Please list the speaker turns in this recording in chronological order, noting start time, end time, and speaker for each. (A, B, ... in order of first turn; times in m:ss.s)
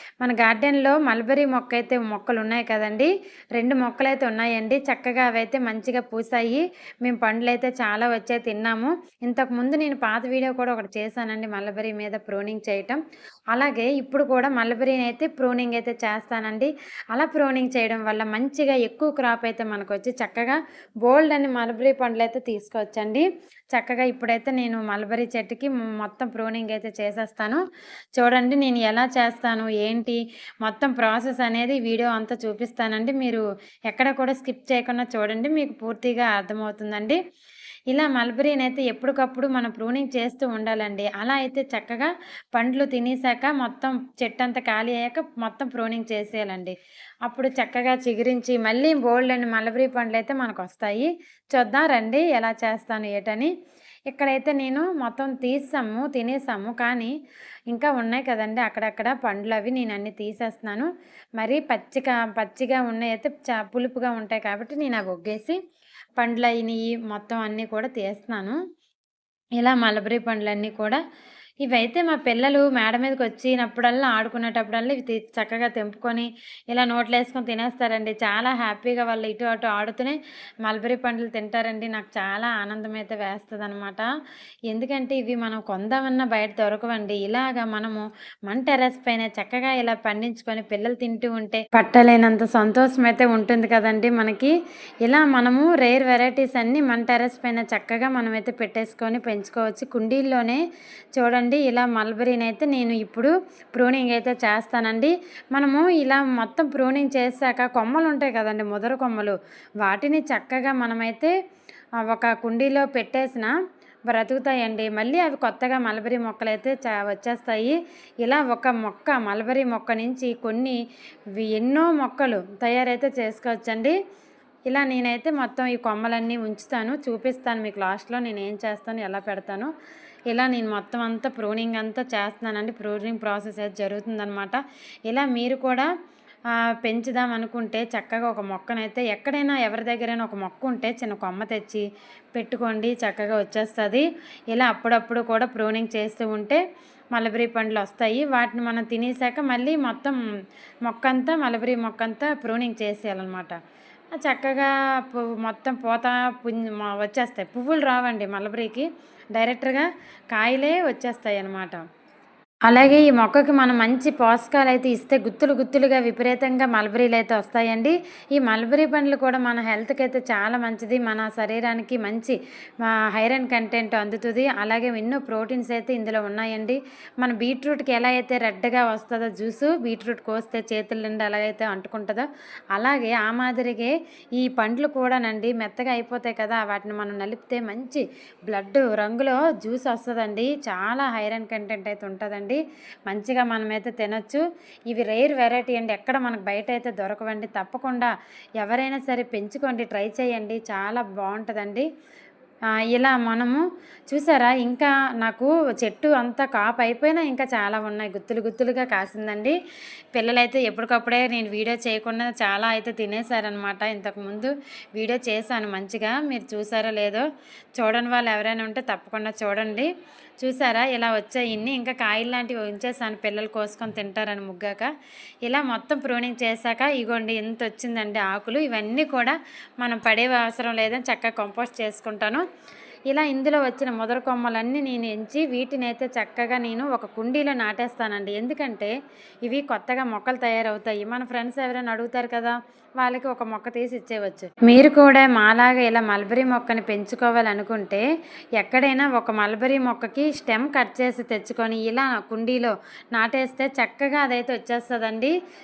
0:00.2-0:13.0 A
0:13.5-0:27.6 A
0:28.2-0:37.2 A
0:37.9-0:46.7 A
0:47.2-0:53.5 A
0:54.1-0:57.1 A
0:57.7-1:05.6 A
1:06.2-1:08.6 A
1:09.6-1:11.0 A
1:11.6-1:24.1 A
1:24.7-1:34.5 A
1:35.0-1:40.6 A
1:41.2-1:51.3 A
1:52.1-1:53.5 A
1:54.1-2:00.8 A
2:01.4-2:03.9 A
2:04.7-2:09.7 A
2:10.3-2:15.9 A
2:16.8-2:26.6 A
2:27.1-2:30.2 A
2:30.8-2:33.6 A
2:34.2-2:41.8 A
2:42.7-3:21.9 A
3:22.9-3:29.6 A
3:30.1-3:37.2 A
3:37.8-3:39.9 A
3:40.4-3:44.9 A
3:45.4-3:52.4 A
3:53.1-3:58.9 A
3:59.4-4:08.0 A
4:08.6-4:15.3 A